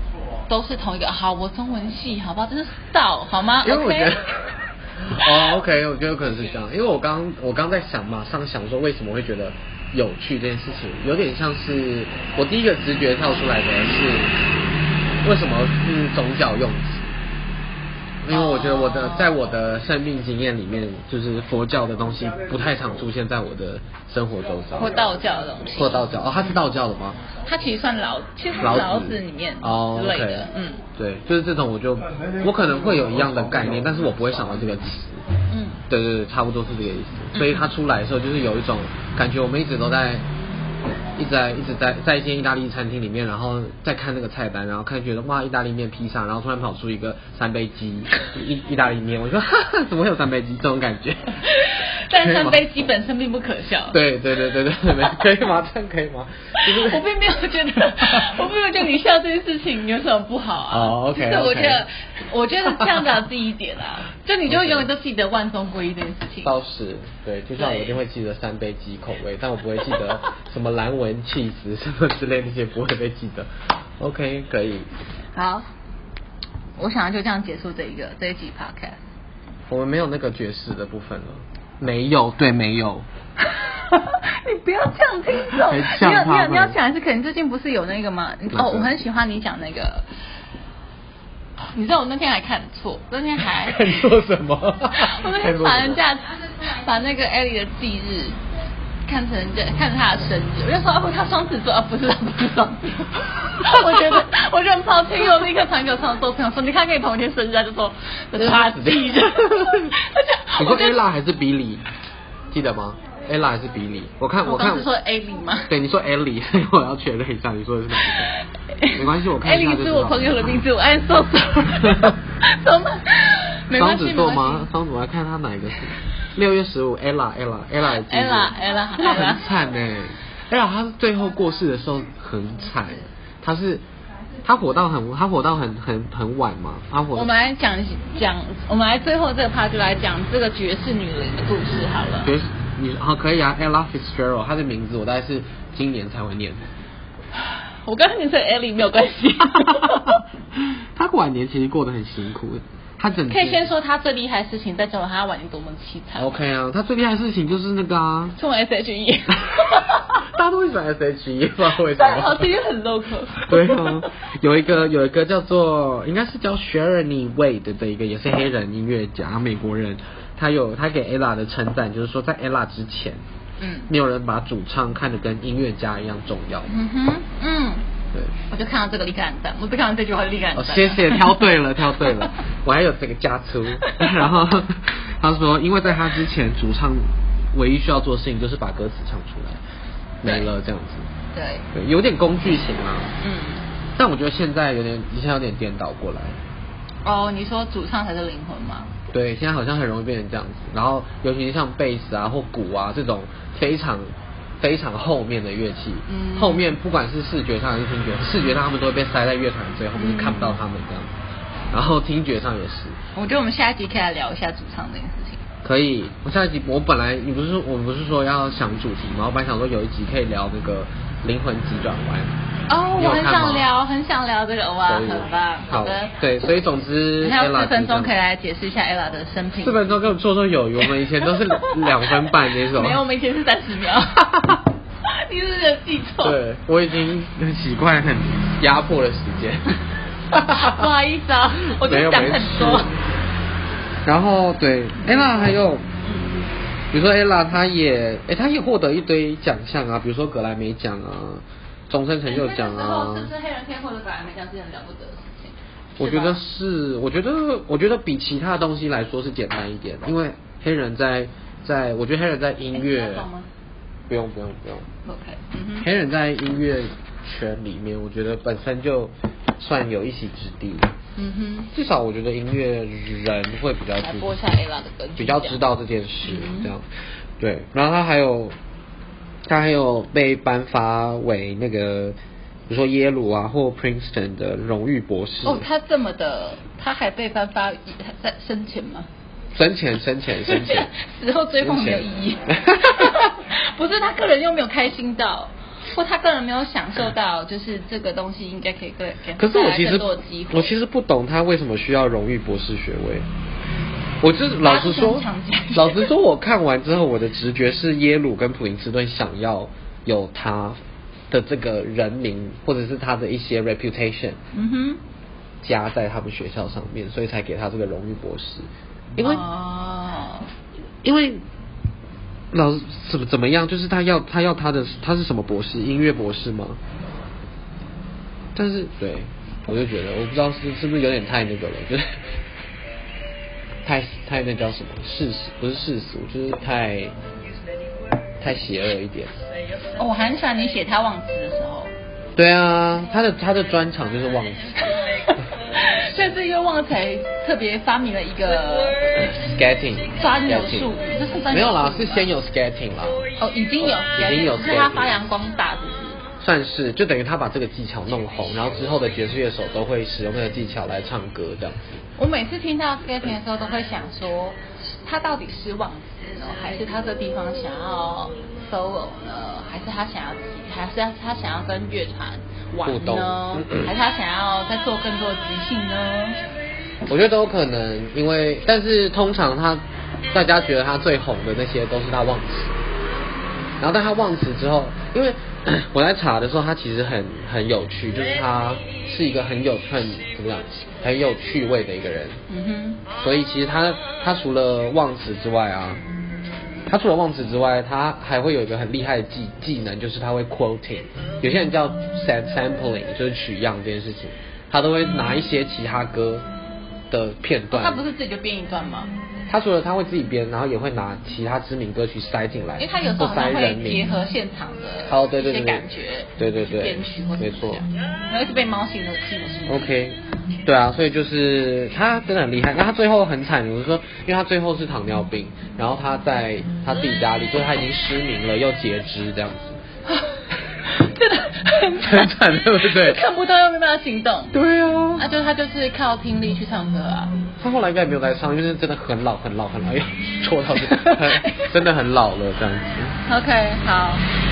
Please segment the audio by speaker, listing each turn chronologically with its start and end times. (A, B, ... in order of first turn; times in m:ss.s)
0:00.5-0:04.2 A
0:03.6-0:04.4 B
0:05.1-0:14.3 B
0:15.2-0:17.1 B
0:18.2-0:25.1 B
0:18.3-0:19.4 A
0:24.8-0:26.2 A
0:25.8-0:27.2 B
0:27.5-0:30.8 A
0:28.6-0:35.2 B
0:35.5-0:35.8 A
0:35.9-0:40.2 B
0:37.3-0:37.7 A
0:41.2-0:51.4 B
0:51.4-0:54.0 A
0:52.2-0:52.7 B
0:53.9-0:57.0 B
0:56.6-1:06.6 A
0:58.0-0:58.3 B
1:00.7-1:01.8 B
1:02.7-1:03.0 B
1:04.5-1:04.9 B
1:06.4-1:14.9 B
1:07.6-1:08.0 A
1:15.4-1:15.7 A
1:16.8-1:19.0 A
1:19.7-1:23.1 B
1:23.9-1:30.1 A
1:25.5-1:26.8 B
1:28.5-1:28.9 B
1:31.7-1:34.0 A
1:33.4-1:36.0 B
1:34.9-1:38.4 A
1:39.1-1:51.0 A
1:43.6-1:44.3 B
1:48.4-1:49.9 B
1:50.6-1:51.8 B
1:52.5-1:54.9 B
1:54.4-1:55.7 A
1:55.7-1:58.3 B
1:58.7-2:04.7 A
1:58.9-2:00.6 B
2:01.9-2:02.1 B
2:03.7-2:13.8 B
2:07.8-2:09.5 A
2:14.4-2:17.3 B
2:17.1-2:22.3 A
2:22.2-2:26.6 B
2:27.4-2:30.2 A
2:29.5-2:33.7 B
2:33.3-2:36.3 A
2:36.2-2:38.4 B
2:38.4-2:40.3 A
2:40.1-2:42.5 B
2:41.8-2:44.0 A
2:43.4-2:53.2 B
2:53.6-2:53.9 A
2:53.9-2:56.7 B
2:56.7-2:57.8 A
2:58.5-3:01.4 A
3:00.6-3:09.6 B
3:10.2-3:11.1 B
3:10.2-3:10.5 A
3:11.3-3:11.7 A
3:11.7-3:13.2 B
3:13.2-3:13.6 A
3:14.0-3:16.4 B
3:17.0-3:18.9 A
3:19.1-3:31.1 B
3:26.1-3:26.6 A
3:30.0-3:30.6 A
3:31.7-3:33.0 B
3:33.2-3:35.4 A
3:35.6-3:42.3 B
3:42.7-3:46.1 A
3:43.0-3:43.7 B
3:44.9-3:48.1 B
3:47.2-3:49.8 A
3:49.6-3:53.0 B
3:51.2-3:56.4 A
3:56.2-3:59.8 B
4:00.3-4:00.9 B
4:00.4-4:02.9 A
4:01.7-4:03.0 B
4:04.0-4:05.9 B
4:05.1-4:05.5 A
4:06.0-4:06.4 A
4:06.9-4:13.3 B
4:12.3-4:16.4 A
4:16.0-4:23.3 B
4:22.7-4:23.5 A
4:24.1-4:24.9 B
4:25.0-4:25.9 A
4:25.8-4:30.9 B
4:31.2-4:31.7 A
4:31.7-4:34.3 B
4:34.0-4:35.6 A
4:35.2-4:38.6 B
4:36.2-4:36.7 A
4:39.5-4:42.2 B
4:42.7-4:45.7 B
4:45.4-4:49.1 A
4:49.6-4:50.9 B
4:50.4-5:00.7 A
4:51.6-4:53.3 B
4:59.4-5:03.3 B
5:04.2-5:10.8 B
5:04.6-5:06.1 A
5:11.3-5:14.4 B
5:14.5-5:15.0 A
5:15.6-5:19.4 B
5:19.2-5:20.5 A
5:21.0-5:21.4 B
5:22.5-5:26.8 B
5:28.6-5:32.3 B
5:33.8-5:37.2 B
5:38.4-5:39.3 B
5:40.0-5:41.9 A
5:42.4-5:45.0 B
5:45.8-5:49.0 A
5:49.5-5:50.9 B
5:50.2-5:52.3 A
5:51.5-5:53.2 B
5:53.4-5:56.2 A
5:53.8-5:55.1 B
5:56.4-6:02.0 B
6:02.2-6:16.4 A
6:12.8-6:13.9 B
6:17.1-6:22.8 B
6:23.8-6:32.4 B
6:32.5-6:33.0 A
6:33.2-6:36.0 B
6:36.9-6:46.5 B
6:47.1-6:48.0 B
6:47.7-6:49.1 A
6:49.5-6:54.1 B
6:52.8-6:59.9 A
6:55.0-6:55.9 B
6:56.4-6:57.8 B
6:59.7-7:09.8 B
7:10.9-7:14.6 A
7:12.0-7:13.2 B
7:14.5-7:15.3 B
7:15.2-7:17.3 A
7:17.6-7:23.2 B
7:20.8-7:21.7 A
7:23.3-7:24.2 A